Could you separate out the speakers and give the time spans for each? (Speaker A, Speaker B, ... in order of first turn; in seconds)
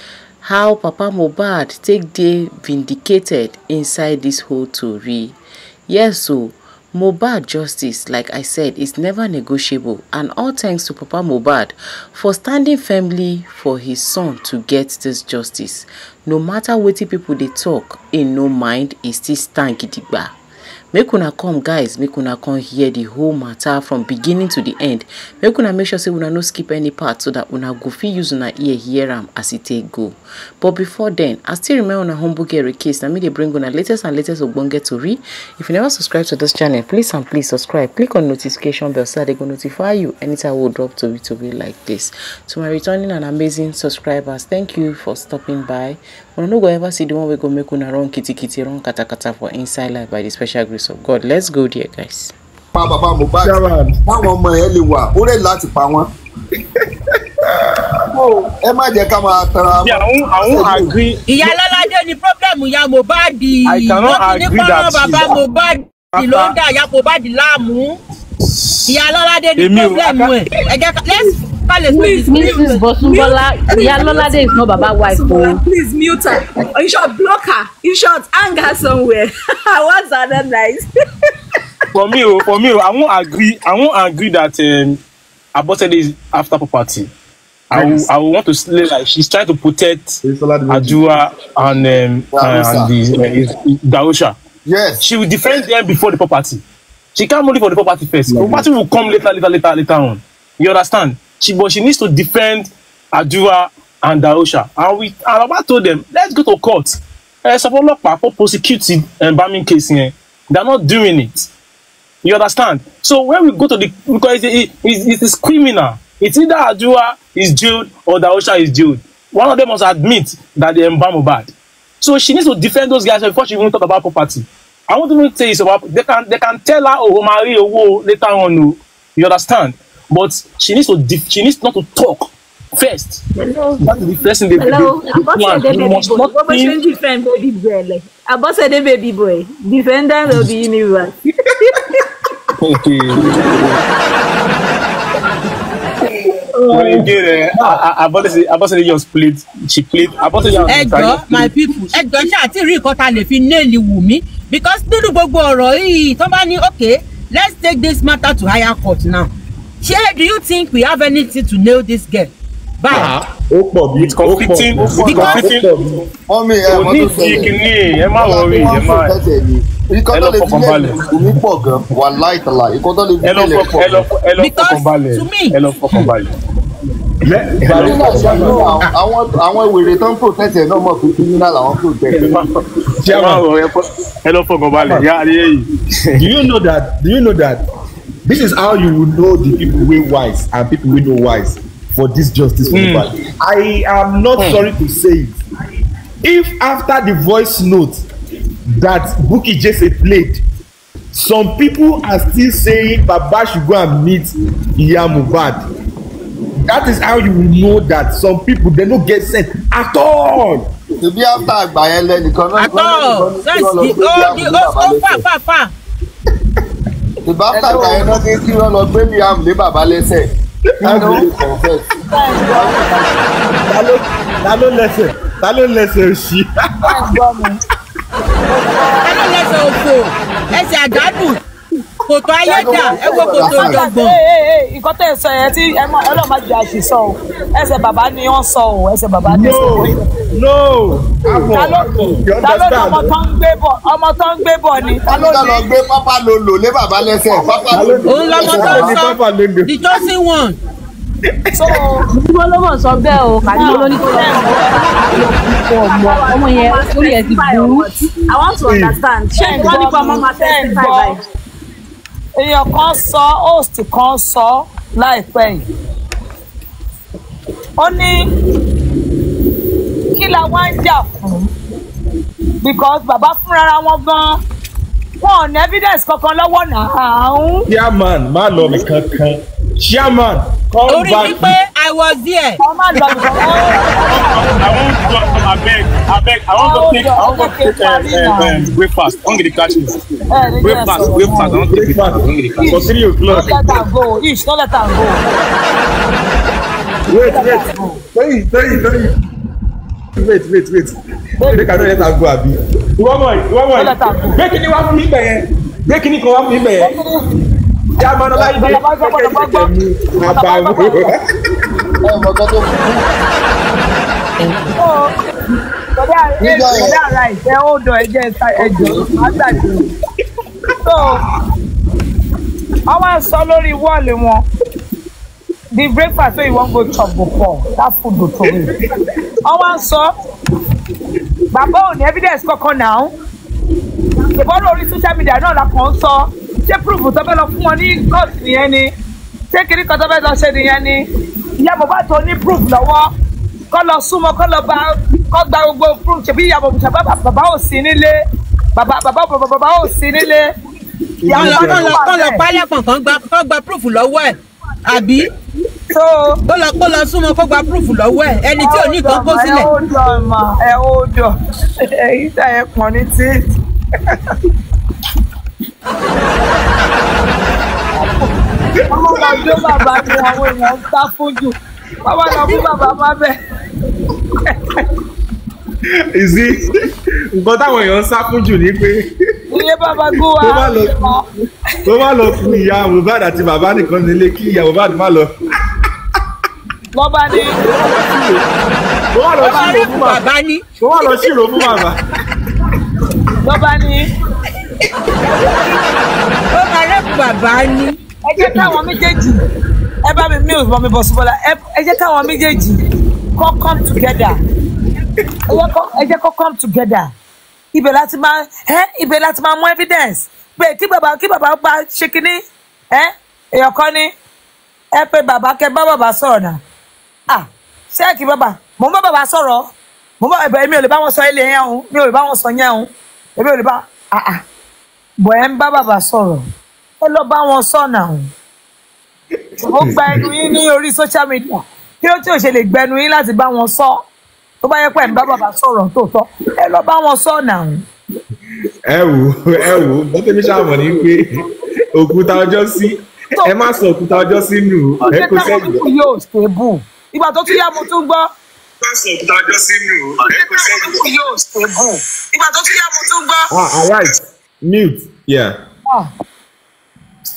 Speaker A: 0.4-5.3, 5.9-20.3, 20.9-52.3
Speaker B: 52.7-56.1, 58.1-61.0, 90.3-91.0, 92.3-92.9, 94.6-95.0, 164.8-165.4, 166.3-167.6, 168.2-174.0, 177.7-182.4, 211.0-215.2, 217.2-220.3, 220.8-221.9, 222.4-223.1, 232.4-233.8, 245.1-249.0, 312.0-313.0, 316.4-317.0
Speaker C: 53.4-54.0, 87.7-88.0, 90.5-90.9, 146.5-147.8, 162.9-166.0, 177.2-178.9, 183.0-183.4, 184.8-185.1, 186.2-187.6, 188.2-195.4, 196.2-198.0, 198.8-200.4, 201.1-205.6, 206.6-210.7, 220.8-221.2, 223.6-227.2, 239.2-243.1, 247.7-250.0, 251.3-251.8, 258.6-259.0, 277.7-281.6, 291.7-293.8, 297.1-299.1, 300.1-307.0, 308.0-311.2, 351.2-352.0, 369.1-370.5, 376.1-379.1, 380.3-381.1, 381.8-385.3, 387.8-388.2, 389.1-390.2, 390.8-392.0, 429.6-430.3, 438.9-445.8, 448.9-450.3, 453.5-455.6
Speaker D: 59.8-61.5, 63.6-65.4, 66.1-66.5, 69.5-70.4, 81.9-85.0, 85.5-87.1, 87.7-94.3, 95.0-96.6, 97.1-111.5, 112.2-133.2, 133.8-136.8, 142.6-143.5, 146.7-152.0, 163.9-166.0, 166.7-169.1, 170.1-171.1, 173.2-176.3, 177.6-178.6, 182.2-186.3, 192.7-193.1, 194.3-194.7, 283.5-290.0, 290.6-292.9
Speaker E: 61.3-68.0, 68.8-72.9, 150.7-163.2, 174.4-175.6, 212.6-215.7, 229.0-231.4, 232.1-234.2, 248.0-250.6, 280.9-282.6, 351.3-355.3, 356.4-359.7, 389.4-390.6, 396.5-398.0
Speaker F: 71.9-75.6, 252.1-257.9
Speaker G: 73.0-80.9, 133.3-133.8, 134.5-141.1, 253.5-261.2
Speaker H: 177.8-178.8, 217.5-218.2, 220.8-221.2, 222.1-222.9, 226.8-227.6, 228.5-229.1, 232.6-240.1, 241.5-245.7, 251.5-252.1, 253.4-255.3, 259.4-261.1, 262.4-265.6, 267.8-268.3, 270.1-271.5, 272.6-274.4, 275.2-277.7, 282.6-285.4, 286.6-288.8, 290.3-291.6, 292.6-295.2, 297.2-298.0, 301.4-302.0, 303.7-304.4, 306.8-307.2, 308.4-311.1, 314.7-315.1, 315.9-319.9, 320.8-321.2, 322.9-324.4, 325.7-328.8, 329.4-330.1, 331.5-333.1, 334.3-338.9, 339.5-341.1, 341.6-343.1, 343.7-348.2, 348.8-350.5, 351.2-352.4, 355.9-356.4, 358.6-363.5, 367.9-368.4, 368.9-373.4, 379.5-381.2, 386.9-387.6, 393.4-394.1, 395.2-395.9, 398.2-399.4, 400.0-402.8, 403.4-404.4, 405.5-407.1, 407.7-414.1, 414.9-416.6, 417.3-424.4, 425.2-426.4, 427.0-428.3, 429.6-434.0, 434.6-437.8, 443.4-443.7, 445.1-448.3, 450.3-453.8